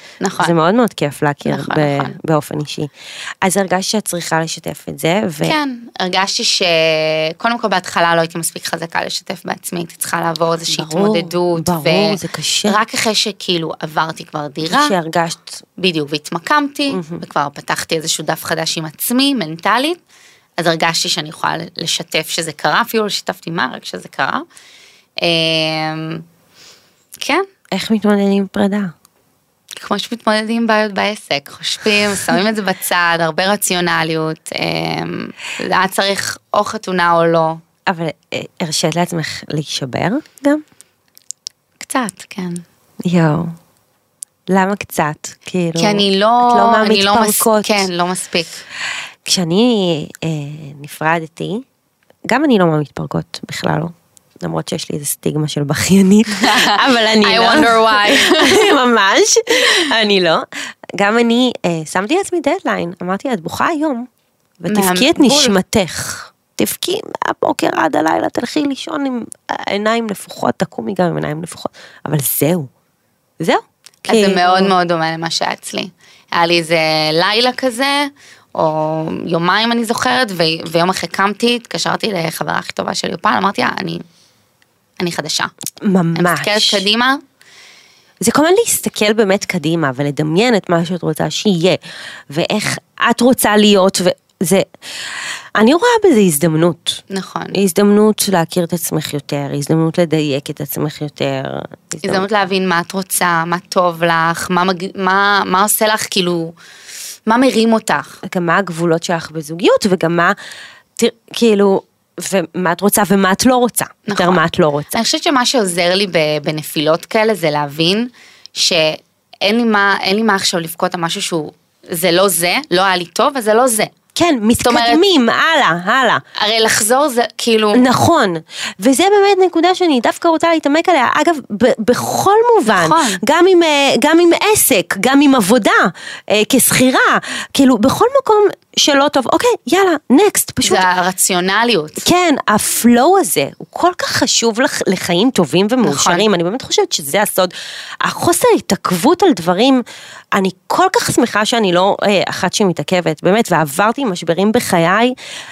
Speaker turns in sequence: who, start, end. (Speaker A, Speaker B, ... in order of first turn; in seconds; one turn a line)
Speaker A: 0.2-0.5
Speaker B: 0.4-2.9
Speaker A: 1.4-2.2
Speaker B: 3.4-5.6
Speaker A: 5.4-14.9
Speaker B: 10.7-12.8
Speaker B: 14.7-15.6
Speaker A: 15.8-20.0
Speaker B: 16.9-17.2
Speaker A: 20.6-24.4
Speaker A: 25.2-26.2
Speaker A: 27.2-27.4
Speaker B: 27.7-28.9
Speaker A: 29.8-37.6
Speaker B: 37.9-40.6
Speaker A: 41.8-42.6
Speaker B: 43.0-43.5
Speaker B: 44.5-47.9
Speaker A: 45.8-48.6
Speaker B: 49.2-51.6
Speaker B: 52.3-64.1
Speaker A: 56.4-58.7
Speaker B: 64.6-72.7
Speaker A: 64.7-65.5
Speaker B: 73.4-74.7
Speaker A: 74.0-84.0
Speaker A: 85.0-85.5
Speaker B: 85.8-86.8
Speaker A: 86.1-87.2
Speaker B: 88.2-91.8
Speaker B: 92.3-94.7
Speaker B: 95.5-97.0
Speaker A: 97.1-97.6
Speaker B: 97.5-102.2
Speaker A: 102.0-106.5
Speaker A: 107.3-108.2
Speaker B: 108.2-110.3
Speaker B: 111.0-114.9
Speaker A: 114.0-123.9
Speaker B: 124.1-126.2
Speaker A: 124.6-125.0
Speaker A: 126.4-127.8
Speaker B: 127.7-140.9
Speaker A: 132.7-133.2
Speaker A: 140.6-142.0
Speaker B: 142.0-155.1
Speaker A: 145.8-146.2